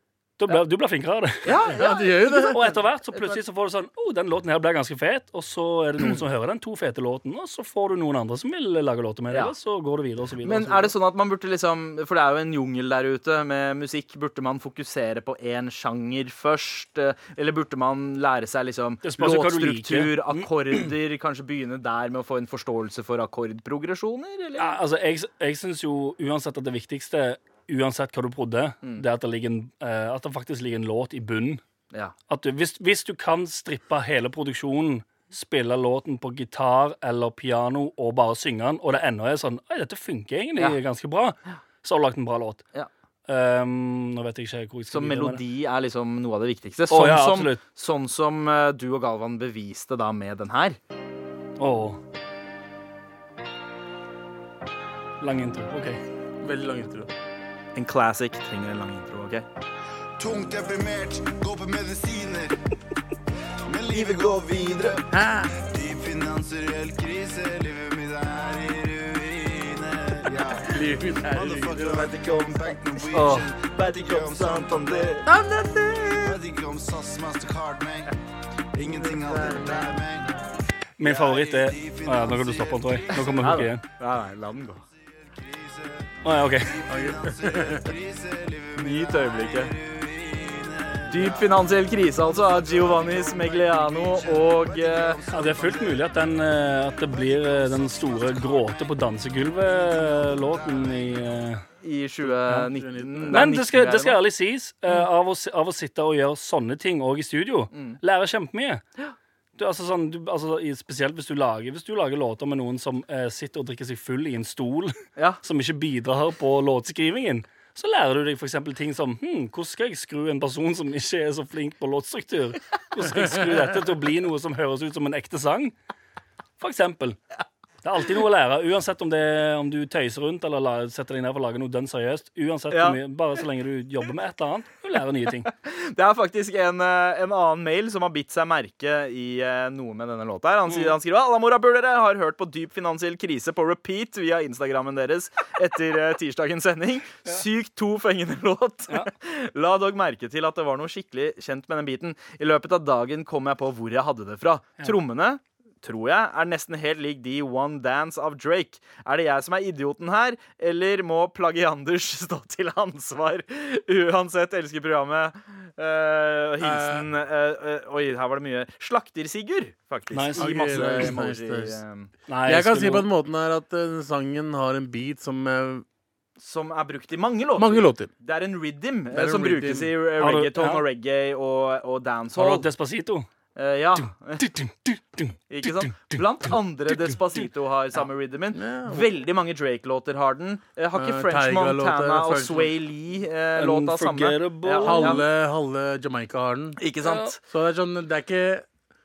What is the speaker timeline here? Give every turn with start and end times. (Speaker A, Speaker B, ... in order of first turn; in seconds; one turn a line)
Speaker A: 0.4-1.6
Speaker B: 1.4-3.4
Speaker C: 1.6-2.6
Speaker A: 2.3-10.9
Speaker B: 10.4-24.7
Speaker A: 19.0-20.9
Speaker A: 24.6-31.6
Speaker A: 32.3-42.6
Speaker A: 43.3-45.4
Speaker B: 44.9-50.8
Speaker A: 46.9-47.6
Speaker A: 51.6-52.0
Speaker A: 55.2-56.0
Speaker C: 56.4-57.1
Speaker B: 57.8-59.5
Speaker D: 60.2-62.6
Speaker D: 63.7-75.3
Speaker B: 63.9-65.0
Speaker C: 65.1-65.5
Speaker C: 70.7-72.2
Speaker A: 73.1-73.5
Speaker B: 73.8-75.1
Speaker C: 75.3-76.4
Speaker D: 76.1-78.1
Speaker D: 78.7-80.3
Speaker C: 78.8-80.0
Speaker A: 81.0-83.8
Speaker D: 81.0-83.7
Speaker B: 83.4-84.8
Speaker D: 85.0-101.3
Speaker A: 86.2-86.8
Speaker C: 86.9-87.9
Speaker B: 88.8-89.7
Speaker B: 91.1-95.2
Speaker A: 95.3-101.6
Speaker B: 101.8-104.2
Speaker C: 102.2-103.5
Speaker A: 103.3-108.8
Speaker B: 107.7-108.0
Speaker A: 109.6-125.8
Speaker B: 115.2-115.4
Speaker A: 126.6-127.2
Speaker A: 127.8-135.5
Speaker B: 132.7-133.0
Speaker B: 135.5-172.1
Speaker A: 140.7-141.0
Speaker C: 166.6-167.1
Speaker A: 170.1-171.1
Speaker C: 170.3-171.8
Speaker A: 172.3-173.1
Speaker C: 172.5-175.8
Speaker B: 176.4-182.7
Speaker C: 177.6-178.1
Speaker C: 179.1-179.9
Speaker A: 180.2-180.8
Speaker A: 182.4-183.3
Speaker B: 183.6-184.5
Speaker A: 184.0-186.2
Speaker B: 185.5-195.2
Speaker C: 188.5-189.1
Speaker C: 190.9-192.7
Speaker A: 193.6-195.2
Speaker C: 194.8-196.8
Speaker B: 196.8-197.4
Speaker A: 197.0-197.3
Speaker C: 197.4-198.7